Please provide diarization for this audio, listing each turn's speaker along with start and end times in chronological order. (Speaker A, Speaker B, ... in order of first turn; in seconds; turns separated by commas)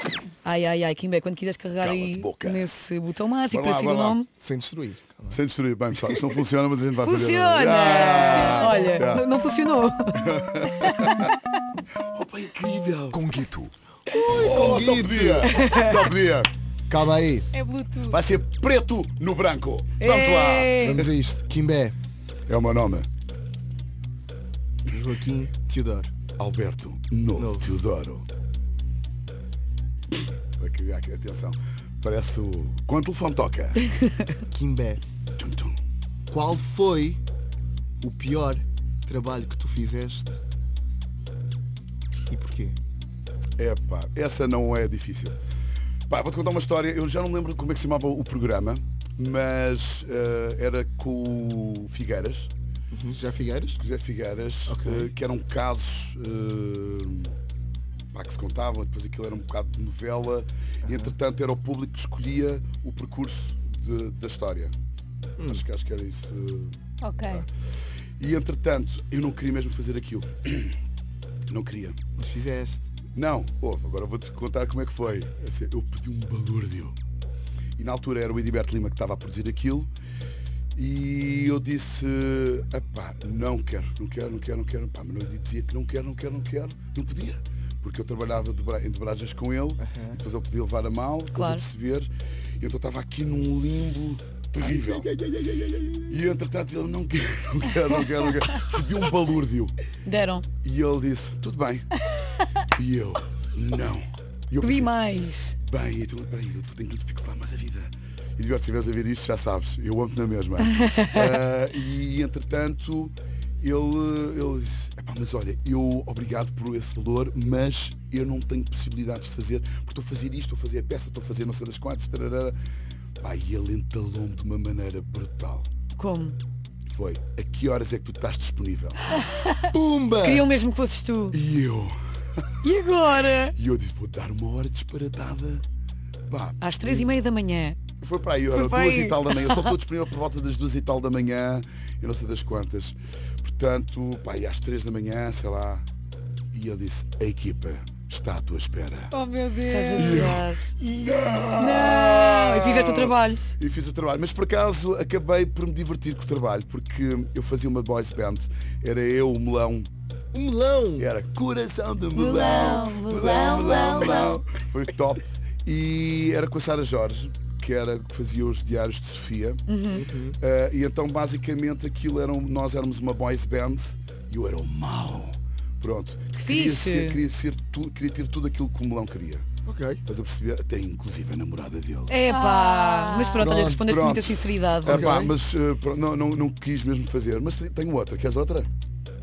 Speaker A: 0.4-4.3, Speaker B: 1.8-2.7, Speaker B: 3.5-4.2, Speaker C: 4.4-5.4, Speaker B: 5.3-9.2, Speaker C: 6.1-6.4, Speaker A: 7.0-10.2, Speaker D: 7.7-9.0, Speaker B: 10.2-11.3, Speaker D: 10.8-11.1, Speaker B: 11.9-13.7, Speaker C: 13.2-15.5, Speaker B: 14.3-16.5, Speaker A: 15.4-16.1, Speaker C: 16.9-17.5, Speaker D: 17.5-18.2, Speaker B: 18.1-21.1, Speaker A: 20.0-21.1, Speaker C: 20.8-21.9, Speaker B: 22.5-23.1, Speaker C: 24.9-26.1, Speaker B: 26.4-28.2, Speaker C: 27.4-27.6, Speaker B: 30.6-33.9, Speaker C: 34.5-35.0, Speaker B: 35.4-35.8, Speaker C: 36.3-37.2, Speaker C: 38.0-40.4, Speaker C: 42.3-42.8, Speaker B: 43.6-45.4, Speaker B: 46.1-52.5, Speaker C: 52.9-53.8, Speaker B: 53.8-57.3, Speaker C: 54.7-55.1, Speaker B: 58.1-64.7, Speaker C: 60.8-61.1, Speaker C: 65.4-65.6, Speaker B: 65.4-66.7, Speaker D: 67.0-67.5, Speaker B: 68.2-70.8, Speaker B: 71.5-72.0, Speaker C: 72.2-72.9, Speaker B: 73.1-76.9, Speaker B: 77.8-79.9, Speaker B: 80.7-95.1, Speaker C: 89.8-90.2, Speaker A: 91.3-91.6, Speaker C: 94.6-96.2, Speaker B: 96.1-99.7, Speaker A: 100.0-100.5, Speaker B: 100.6-102.0, Speaker B: 102.6-104.9, Speaker A: 104.6-105.5, Speaker B: 105.6-122.5, Speaker A: 110.8-111.1, Speaker B: 123.2-125.7, Speaker A: 125.9-126.3, Speaker B: 126.9-129.0, Speaker A: 129.1-131.4, Speaker C: 129.7-130.5, Speaker B: 131.3-132.4, Speaker A: 132.6-133.5, Speaker B: 133.5-135.6, Speaker B: 136.3-137.1, Speaker A: 136.6-137.8, Speaker B: 138.0-145.9, Speaker A: 138.5-139.7, Speaker B: 146.5-149.1, Speaker D: 149.1-150.3, Speaker A: 149.7-150.6, Speaker B: 149.9-159.9, Speaker A: 151.6-153.4, Speaker C: 160.3-161.1, Speaker B: 161.0-169.6, Speaker A: 162.1-164.4, Speaker D: 163.2-163.7, Speaker A: 169.7-170.0, Speaker C: 169.9-170.4, Speaker B: 170.4-179.5, Speaker A: 176.3-177.2, Speaker C: 179.7-180.0, Speaker B: 180.0-182.1, Speaker A: 182.1-185.1, Speaker D: 182.3-183.5, Speaker C: 183.4-183.9, Speaker B: 183.8-188.7, Speaker C: 184.8-185.3